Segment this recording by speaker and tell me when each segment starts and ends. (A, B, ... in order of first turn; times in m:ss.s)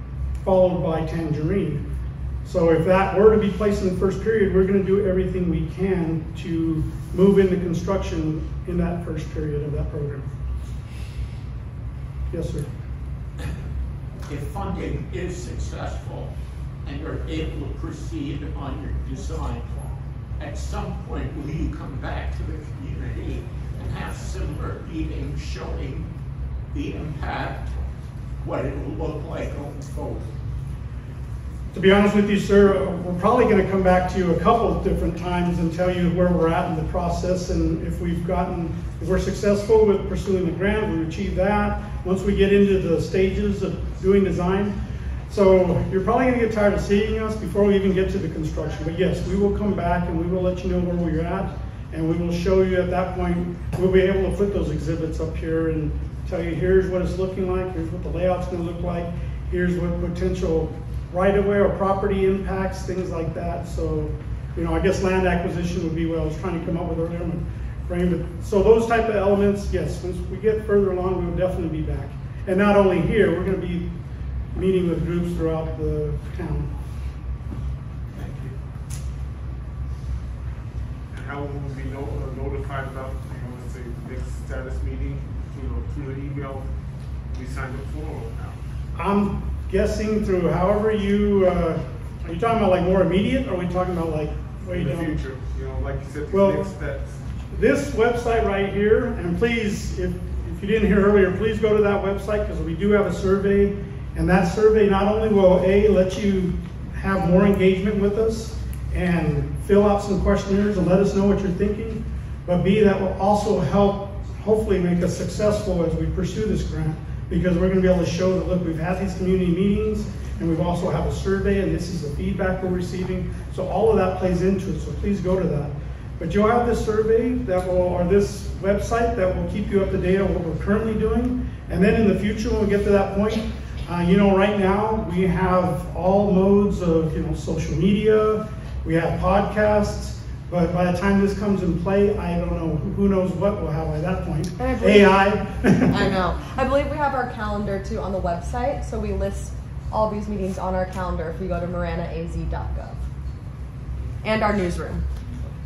0:00.4-0:01.8 A
0:02.4-0:10.3 A
0:12.3-0:12.7 A
0:14.3-0:16.3 B
0:16.8-0:19.8 B
0:20.4-0:26.1 B
0:26.7-0:27.8 B
0:28.4-0:30.4 B
0:31.7-0:44.8 A
0:45.3-1:13.9 A
1:14.5-1:16.7 A
1:18.1-1:18.5 C
1:21.1-1:26.7 C
1:27.3-1:28.6 C
1:29.0-1:35.2 A
1:34.7-1:37.2 C
1:36.3-1:36.7 A
1:37.5-2:26.0 A
2:24.6-2:25.3 D
2:25.9-2:33.0 D
2:34.2-2:35.0 D